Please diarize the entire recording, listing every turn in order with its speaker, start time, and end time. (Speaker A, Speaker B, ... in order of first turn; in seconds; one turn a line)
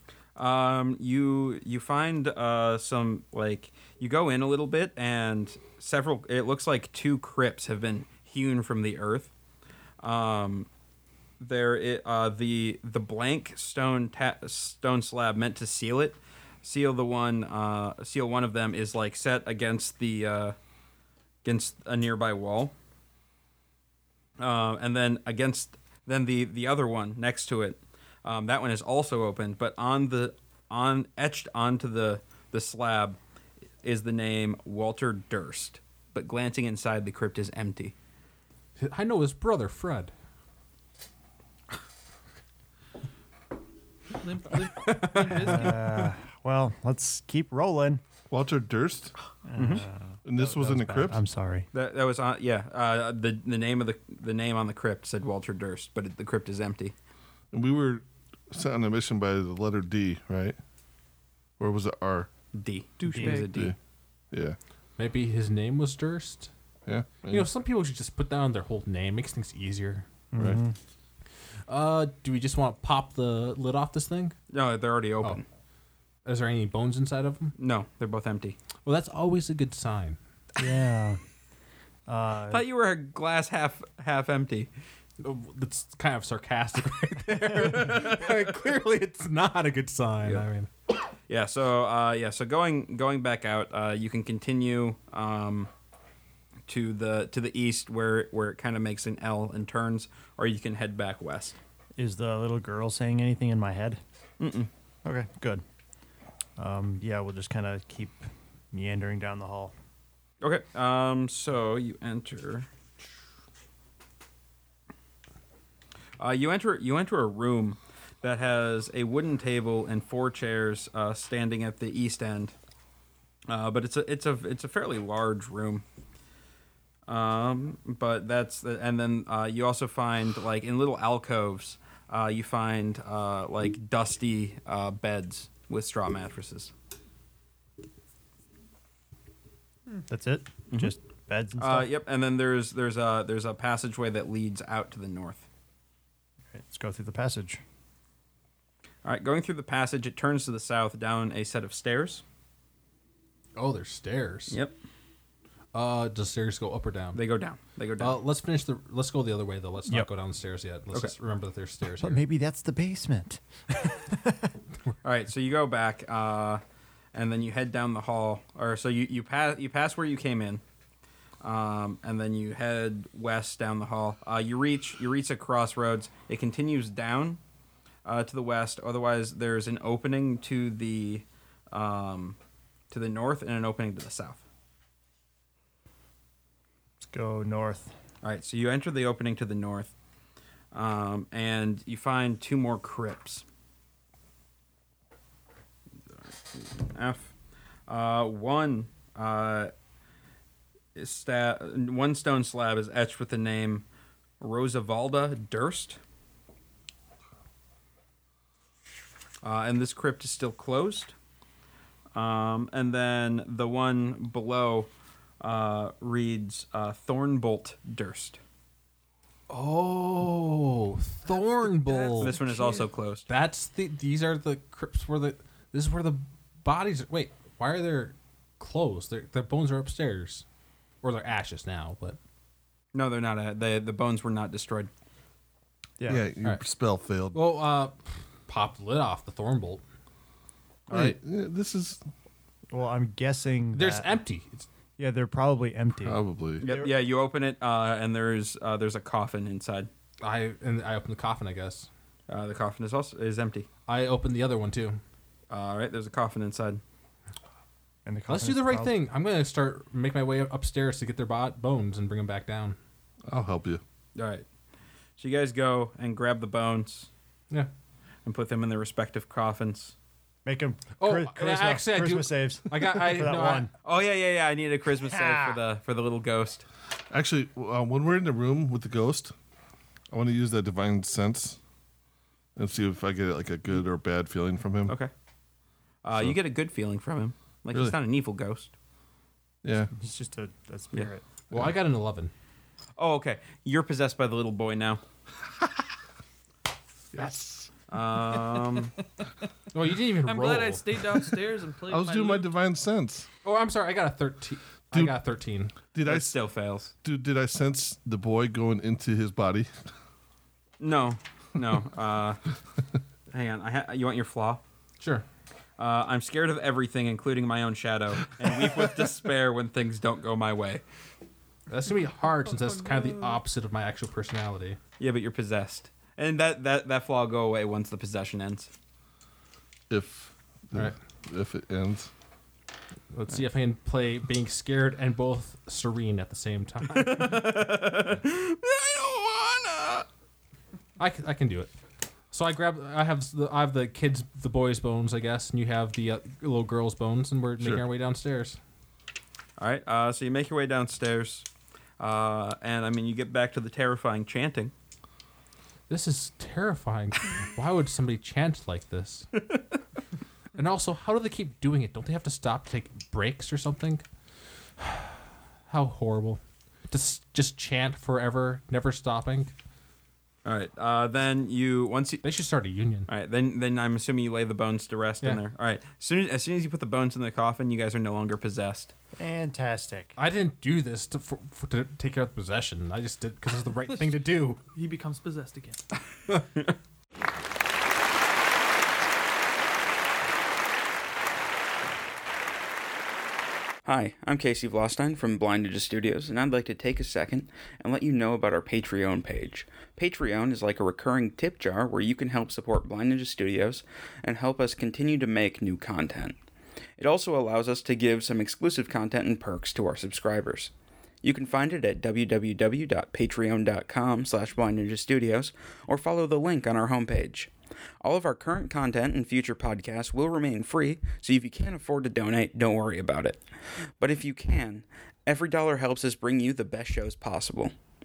Speaker A: 0.4-9.3
Speaker A: 10.0-10.7
Speaker A: 11.4-20.6
Speaker A: 21.4-22.8
Speaker A: 24.4-33.2
Speaker A: 33.8-37.9
Speaker B: 38.8-40.1
Speaker C: 44.2-46.0
Speaker B: 44.6-45.7
Speaker D: 45.4-48.0
Speaker E: 48.3-49.1
Speaker D: 49.5-51.7
Speaker A: 49.6-49.8
Speaker E: 50.2-51.2
Speaker A: 51.7-56.9
Speaker E: 57.5-60.6
Speaker E: 61.6-62.3
Speaker A: 62.5-63.8
Speaker C: 63.0-63.6
Speaker E: 63.3-63.8
Speaker E: 64.3-64.6
Speaker B: 65.0-66.5
Speaker E: 66.9-67.5
Speaker B: 67.3-70.1
Speaker D: 70.3-70.8
Speaker B: 71.7-74.4
Speaker A: 74.5-75.4
Speaker B: 76.2-77.5
Speaker A: 77.6-78.6
Speaker B: 78.8-80.2
Speaker D: 80.6-81.2
Speaker D: 82.1-82.7
Speaker A: 82.5-84.7
Speaker B: 85.2-90.7
Speaker A: 87.7-88.3
Speaker A: 91.3-95.7
Speaker A: 96.7-101.6
Speaker D: 102.0-104.0
Speaker A: 104.4-104.7
Speaker D: 105.0-105.6
Speaker D: 106.6-109.7
Speaker A: 110.4-112.7
Speaker A: 116.2-122.5
Speaker A: 123.5-125.8
Speaker A: 127.1-136.7
Speaker D: 140.1-141.9
Speaker A: 141.6-145.4
Speaker D: 146.5-147.6
Speaker A: 149.1-152.2
Speaker B: 153.6-154.6
Speaker A: 154.5-154.8
Speaker B: 155.7-157.2
Speaker A: 157.1-158.2
Speaker B: 158.0-162.2
Speaker D: 162.0-164.5
Speaker A: 165.0-166.6
Speaker A: 167.1-170.6
Speaker A: 171.4-177.4
Speaker A: 178.1-182.4
Speaker A: 182.9-184.4
Speaker D: 187.1-187.9
Speaker A: 188.2-189.9
Speaker A: 190.7-193.5
Speaker A: 196.5-197.3
Speaker A: 197.9-199.7
Speaker A: 200.9-203.8
Speaker A: 204.4-206.0
Speaker A: 209.4-211.2
Speaker A: 212.2-218.4
Speaker B: 219.5-222.4
Speaker C: 221.3-222.9
Speaker A: 222.2-223.3
Speaker B: 223.3-230.4
Speaker B: 231.0-232.2
Speaker A: 232.9-234.9
Speaker D: 236.0-236.2
Speaker E: 236.1-237.4
Speaker B: 237.3-239.8
Speaker E: 240.9-242.0
Speaker D: 242.7-244.1
Speaker B: 243.7-244.7
Speaker D: 245.0-247.0
Speaker E: 246.0-246.7
Speaker A: 246.6-249.9
Speaker B: 250.2-251.9
Speaker A: 252.3-253.7
Speaker B: 253.9-255.0
Speaker A: 255.5-256.8
Speaker D: 258.1-259.0
Speaker B: 258.3-262.8
Speaker E: 263.3-263.8
Speaker A: 264.2-264.5
Speaker A: 265.2-267.1
Speaker A: 268.2-269.9
Speaker D: 270.4-273.7
Speaker B: 271.0-273.7
Speaker A: 273.8-276.6
Speaker D: 274.9-275.6
Speaker E: 277.1-279.3
Speaker E: 280.1-281.6
Speaker E: 282.6-285.0
Speaker A: 286.0-288.7
Speaker E: 289.6-289.9
Speaker D: 289.9-291.2
Speaker B: 291.5-292.3
Speaker A: 293.0-295.0
Speaker B: 297.1-297.7
Speaker A: 297.9-299.0
Speaker B: 299.7-301.2
Speaker C: 300.2-302.5
Speaker E: 301.9-303.3
Speaker B: 303.4-305.7
Speaker E: 305.9-306.4
Speaker A: 306.1-306.9
Speaker E: 306.9-309.7
Speaker A: 310.8-312.4
Speaker A: 313.3-314.6
Speaker B: 315.0-315.3
Speaker A: 315.8-320.8
Speaker B: 321.7-324.8
Speaker C: 322.4-323.4
Speaker A: 325.0-328.7
Speaker E: 329.9-332.1
Speaker B: 333.1-337.5
Speaker A: 336.9-340.1
Speaker B: 341.0-341.7
Speaker B: 342.3-348.6
Speaker E: 347.6-347.8
Speaker A: 349.6-351.5
Speaker A: 352.0-354.7
Speaker B: 355.9-359.4
Speaker B: 360.6-364.1
Speaker B: 364.8-369.5
Speaker A: 370.4-372.2
Speaker B: 372.2-373.1
Speaker A: 373.1-378.9
Speaker D: 379.2-380.2
Speaker B: 380.2-384.6
Speaker C: 384.6-385.8
Speaker A: 393.9-403.8
Speaker F: 394.0-394.3
Speaker F: 395.2-406.3
Speaker A: 404.3-406.3
Speaker A: 407.0-410.7
Speaker F: 408.0-410.7
Speaker F: 411.2-417.4
Speaker A: 411.2-417.5
Speaker F: 418.0-422.3
Speaker A: 418.1-423.4
Speaker F: 424.0-427.7
Speaker A: 424.0-427.7